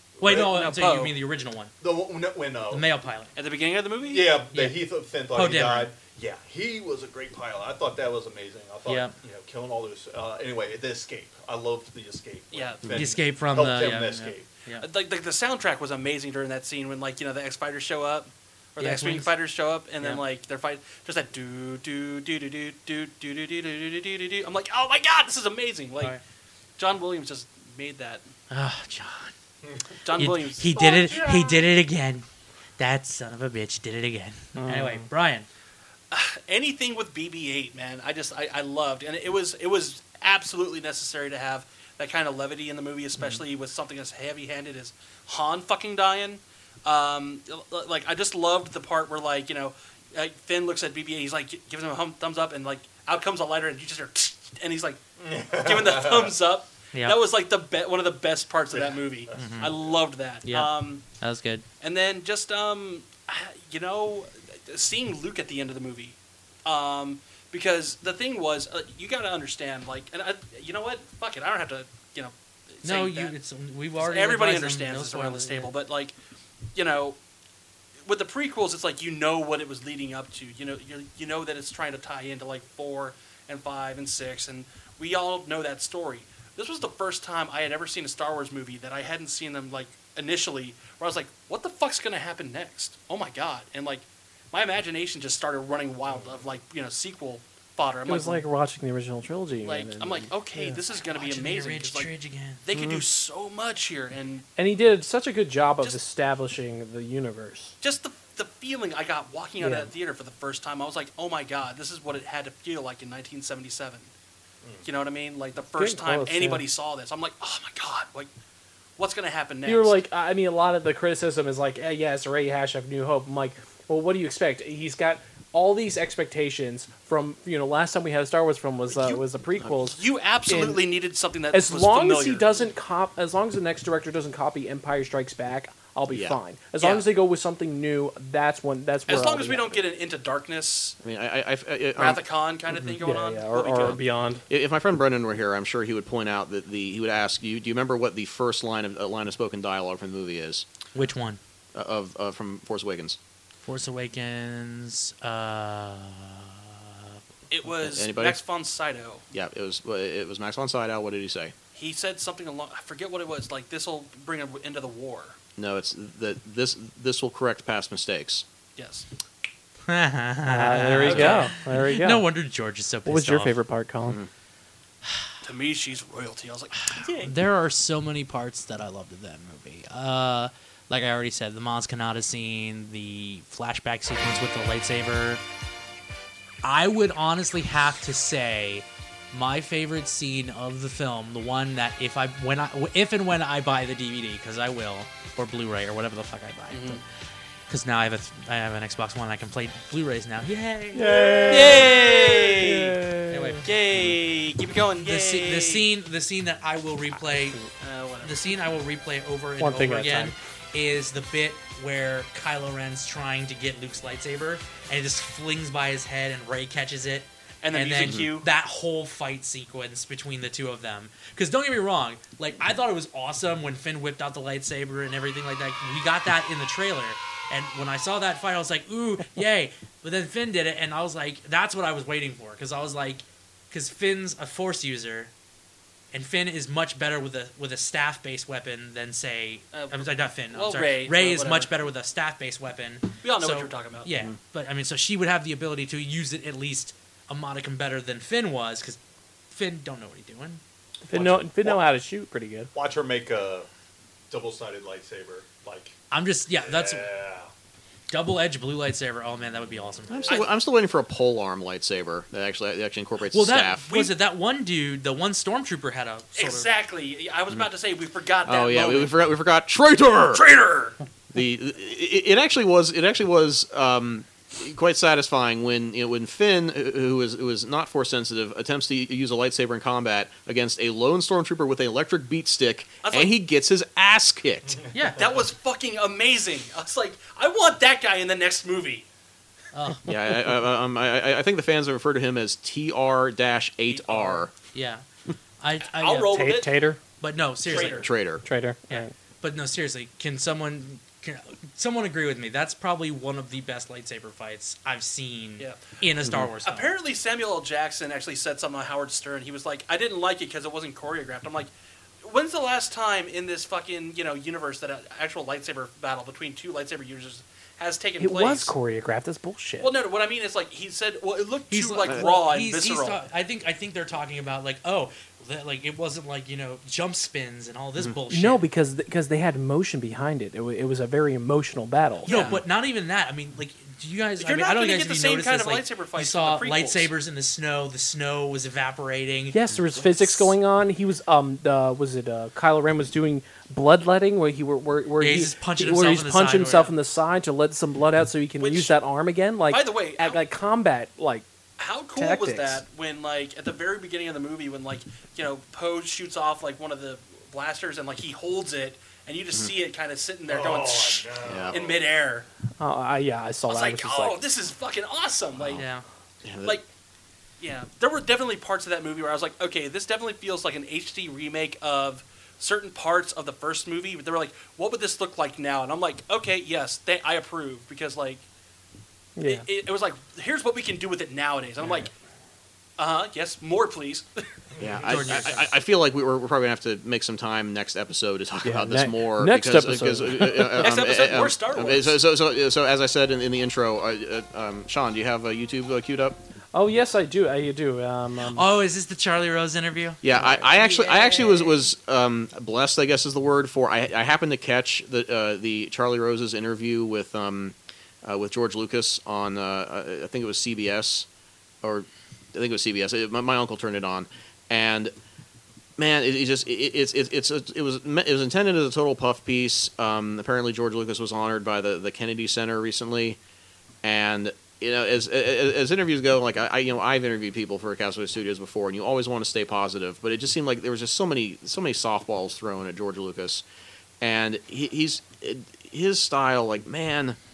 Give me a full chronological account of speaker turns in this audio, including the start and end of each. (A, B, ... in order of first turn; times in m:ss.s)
0:00.2-0:00.6 A
0:00.2-0:01.7 B
0:00.5-0:01.2 C
0:01.8-0:02.8 A
0:02.7-0:03.3 B
0:03.3-0:04.4 C
0:04.0-0:14.5 A
0:04.5-0:05.9 B
0:08.8-0:09.1 B
0:12.5-0:13.1 C
0:12.9-0:14.8 B
0:14.8-0:26.2 C
0:18.8-0:19.3 B
0:26.8-0:28.3 C
0:28.5-0:29.3 B
0:30.0-0:31.4 C
0:30.1-0:32.2 B
0:32.8-0:35.5 B
0:34.6-0:35.1 D
0:36.1-0:55.0 C
0:55.2-0:56.4 A
0:55.5-1:01.0 C
0:56.9-0:57.2 B
0:58.7-0:59.7 A
0:59.3-0:59.7 B
1:00.4-1:01.6 B
1:01.8-1:13.3 C
1:12.8-1:15.7 B
1:14.0-1:16.1 C
1:16.7-1:17.2 C
1:18.0-1:38.4 C
1:38.0-1:40.8 D
1:39.6-1:42.1 C
1:41.1-1:42.6 B
1:42.6-1:44.4 C
1:42.7-1:43.0 E
1:44.6-1:47.7 D
1:47.8-1:54.1 C
1:49.6-1:49.9 D
1:54.8-1:58.3 C
1:55.8-1:56.6 D
1:59.0-2:00.0 C
1:59.6-2:10.8 D
2:08.9-2:09.2 C
2:09.8-2:12.7 C
2:11.5-2:19.8 D
2:16.1-2:16.4 E
2:16.8-2:17.1 C
2:19.1-2:21.0 C
2:21.0-2:22.2 E
2:22.0-2:24.0 C
2:23.0-2:24.4 D
2:24.5-2:30.6 E
2:30.9-2:31.4 B
2:31.7-2:33.2 E
2:33.6-2:37.2 B
2:37.5-2:39.2 C
2:37.8-2:38.4 E
2:39.3-2:41.5 E
2:41.7-2:45.4 C
2:45.6-2:48.4 E
2:48.8-2:49.0 C
2:49.9-2:53.6 B
2:50.4-2:52.2 D
2:51.0-2:51.5 C
2:53.0-2:54.2 D
2:55.4-2:57.3 C
2:56.8-3:05.4 B
3:06.6-3:17.0 B
3:16.7-3:17.0 C
3:17.7-3:21.9 B
3:20.9-3:23.6 D
3:21.0-3:22.2 A
3:21.5-3:23.0 C
3:23.3-3:23.6 B
3:23.6-3:25.8 C
3:25.0-3:27.6 B
3:27.7-3:28.5 C
3:28.2-3:55.3 B
3:29.6-3:30.3 D
3:37.6-3:38.5 C
3:56.1-4:09.0 B
3:59.7-4:01.7 C
4:03.2-4:04.1 C
4:09.5-4:10.6 B
4:11.0-4:12.7 D
4:11.1-4:11.8 A
4:12.7-4:13.7 A
4:14.3-4:15.9 A
4:16.1-4:17.1 B
4:16.6-4:17.5 A
4:18.1-4:20.4 B
4:20.1-4:24.1 E
4:23.3-4:26.7 B
4:26.3-4:29.2 C
4:28.4-4:30.5 E
4:30.3-4:30.9 C
4:31.3-4:44.8 E
4:43.0-4:43.3 C
4:44.9-4:45.3 B
4:45.2-4:49.0 C
4:49.7-4:50.1 B
4:50.1-4:54.5 E
4:53.9-4:54.4 C
4:54.7-4:55.0 B
4:55.6-4:56.5 B
4:55.8-4:56.7 C
4:56.3-4:57.0 D
4:57.2-4:58.1 B
4:57.7-4:58.1 C
4:57.7-4:58.4 E
4:58.4-4:59.1 D
4:58.9-5:06.9 B
5:05.6-5:06.0 C
5:06.6-5:11.7 C
5:12.2-5:18.7 C
5:18.2-5:19.9 D
5:19.8-5:23.2 C
5:21.7-5:28.6 B
5:28.3-5:32.3 D
5:32.2-5:40.5 B
5:32.3-5:32.6 E
5:34.4-5:37.1 C
5:39.5-5:51.4 D
5:45.2-5:46.9 B
5:48.6-5:49.0 C
5:49.7-5:50.4 C
5:51.8-6:02.5 C
5:52.1-5:52.8 D
6:00.4-6:02.1 A
6:01.4-6:01.8 E
6:02.8-6:04.4 D
6:03.7-6:05.8 C
6:05.7-6:06.0 B
6:06.4-6:06.8 E
6:07.6-6:18.4 C
6:19.4-6:19.6 D
6:19.4-6:22.1 C
6:23.0-6:24.3 C
6:24.8-6:36.4 E
6:25.0-6:25.7 B
6:28.6-6:30.9 D
6:30.8-6:32.2 C
6:36.7-6:38.7 D
6:38.5-6:40.2 B
6:40.2-6:51.3 E
6:40.4-6:40.6 D
6:51.8-6:55.1 E
6:56.0-7:03.4 E
7:04.0-7:13.6 E
7:14.2-7:17.4 E